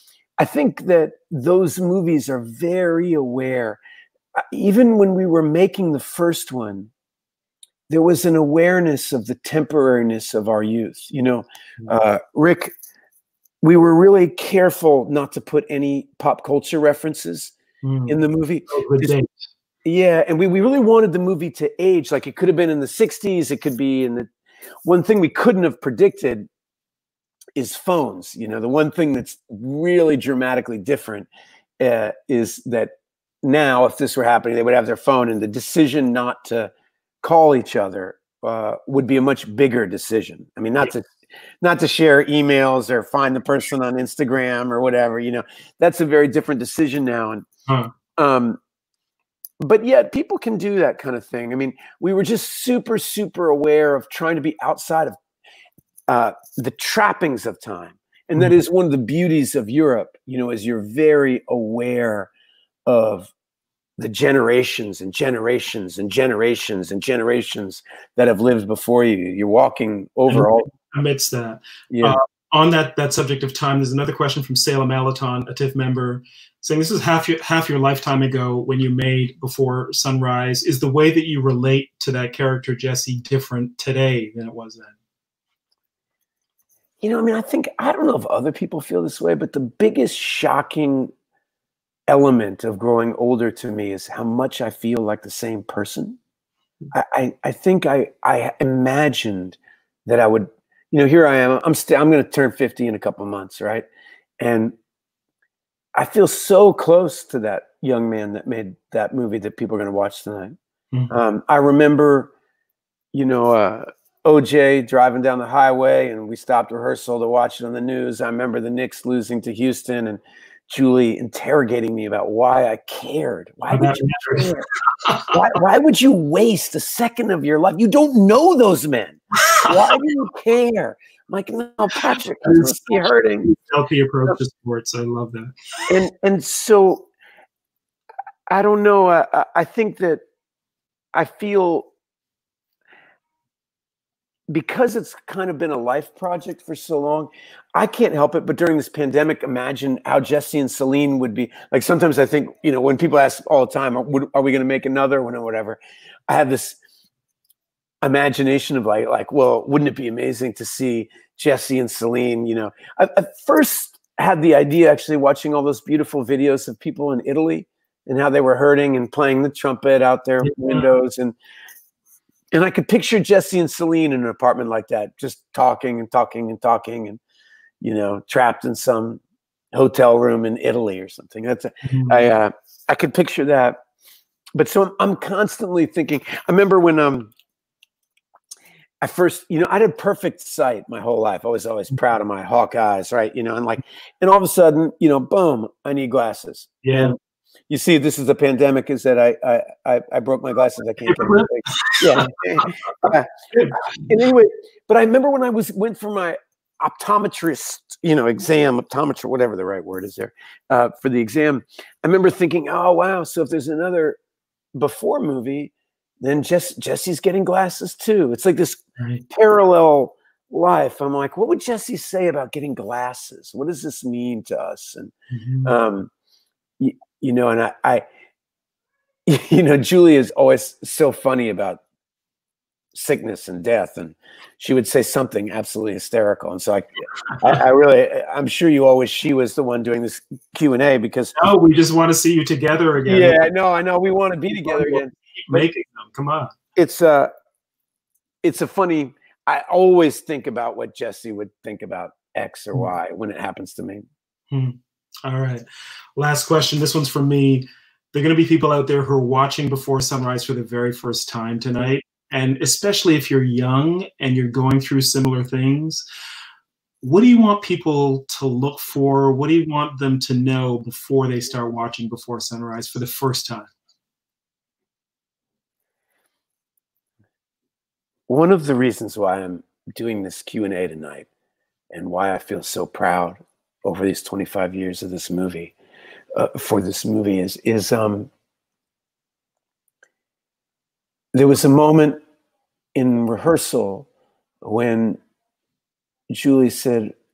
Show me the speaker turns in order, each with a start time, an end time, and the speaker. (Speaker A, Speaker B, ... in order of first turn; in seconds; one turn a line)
Speaker A: 0.4-3.8
Speaker A: 4.3-6.9
Speaker A: 7.9-12.7
Speaker A: 13.6-17.5
Speaker B: 17.8-19.4
Speaker A: 18.1-19.2
Speaker A: 19.8-24.3
Speaker A: 24.8-26.5
Speaker A: 27.6-31.3
Speaker A: 31.8-32.9
Speaker A: 33.4-36.7
Speaker A: 37.2-47.5
Speaker A: 48.1-48.6
Speaker A: 49.6-55.2
Speaker A: 56.1-62.3
Speaker A: 62.9-63.3
Speaker A: 64.0-70.7
Speaker B: 70.3-84.9
Speaker A: 71.9-72.2
Speaker A: 87.0-91.1
Speaker A: 92.1-96.2
Speaker A: 96.9-103.9
Speaker A: 104.4-104.7
Speaker A: 105.9-110.5
Speaker A: 111.1-112.3
Speaker A: 113.1-124.7
Speaker B: 123.7-125.3
Speaker A: 125.3-133.5
Speaker B: 129.4-129.9
Speaker B: 132.4-135.5
Speaker A: 135.9-137.1
Speaker A: 138.5-140.2
Speaker A: 141.1-141.9
Speaker A: 144.5-156.8
Speaker A: 158.0-171.3
Speaker B: 170.4-170.9
Speaker A: 172.5-177.2
Speaker A: 177.8-179.2
Speaker A: 179.7-183.8
Speaker B: 181.8-182.2
Speaker A: 184.5-187.3
Speaker A: 189.0-197.2
Speaker B: 196.8-197.1
Speaker A: 197.7-214.2
Speaker B: 201.0-202.7
Speaker B: 203.5-203.8
Speaker A: 214.7-226.1
Speaker B: 219.0-219.2
Speaker B: 225.3-225.7
Speaker A: 226.8-228.0
Speaker A: 229.2-231.8
Speaker A: 232.9-241.3
Speaker B: 241.3-243.4
Speaker A: 243.1-245.7
Speaker B: 244.6-246.5
Speaker A: 246.8-247.3
Speaker A: 248.4-254.0
Speaker B: 254.5-255.6
Speaker B: 256.1-266.0
Speaker B: 267.0-273.7
Speaker A: 278.3-281.3
Speaker A: 281.9-285.7
Speaker A: 286.3-288.3
Speaker A: 291.3-292.2
Speaker A: 292.9-294.1
Speaker A: 294.6-295.2
Speaker A: 296.3-297.1